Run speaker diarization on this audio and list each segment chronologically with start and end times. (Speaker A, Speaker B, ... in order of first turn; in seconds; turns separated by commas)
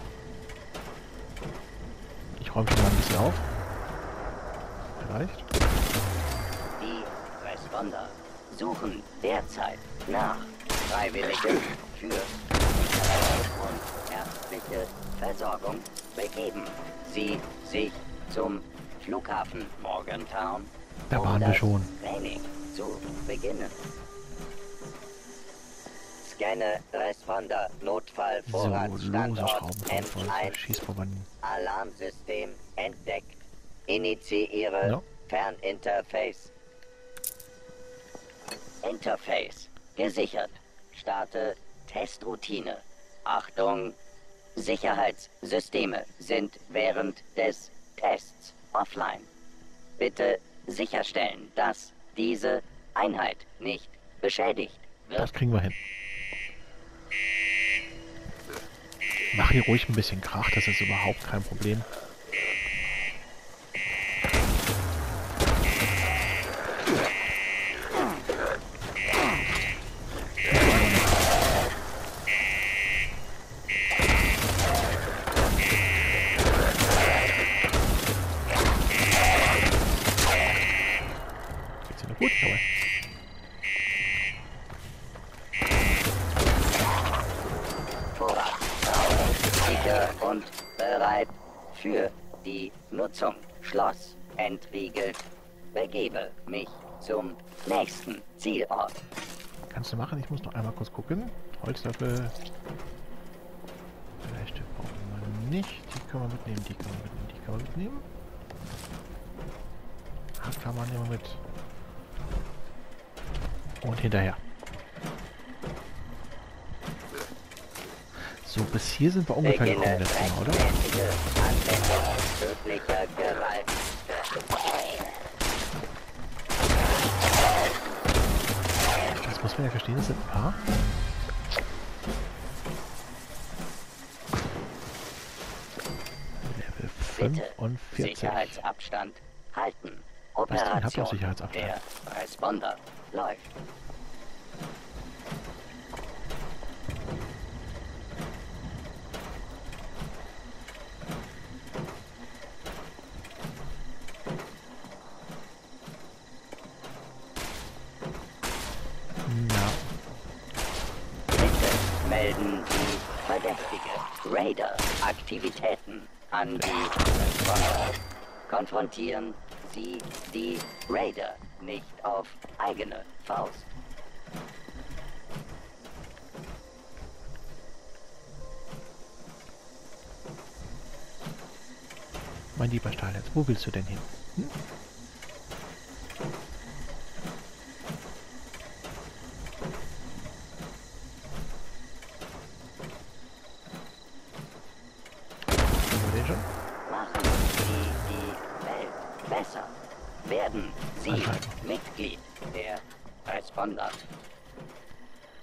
Speaker A: 2.4-3.5, Speaker A: 5.0-5.5, Speaker B: 6.8-23.8, Speaker A: 21.1-21.9, Speaker B: 26.2-30.6, Speaker A: 28.5-31.3, Speaker B: 31.4-36.5, Speaker B: 38.8-44.0, Speaker B: 44.6-49.3, Speaker B: 50.0-55.3, Speaker A: 55.1-55.8, Speaker A: 59.3-61.9, Speaker A: 70.5-71.1, Speaker A: 81.8-82.7, Speaker B: 88.1-99.0, Speaker A: 99.7-102.4, Speaker A: 104.2-108.1, Speaker A: 110.4-111.4, Speaker A: 113.8-114.4, Speaker A: 118.4-120.7, Speaker B: 119.4-123.9, Speaker A: 129.2-130.6, Speaker A: 136.4-138.6, Speaker B: 137.2-143.5, Speaker A: 140.5-141.8, Speaker A: 159.2-159.9, Speaker B: 161.3-173.7, Speaker A: 182.6-184.6, Speaker A: 195.9-196.5, Speaker B: 196.9-204.0, Speaker A: 201.1-201.6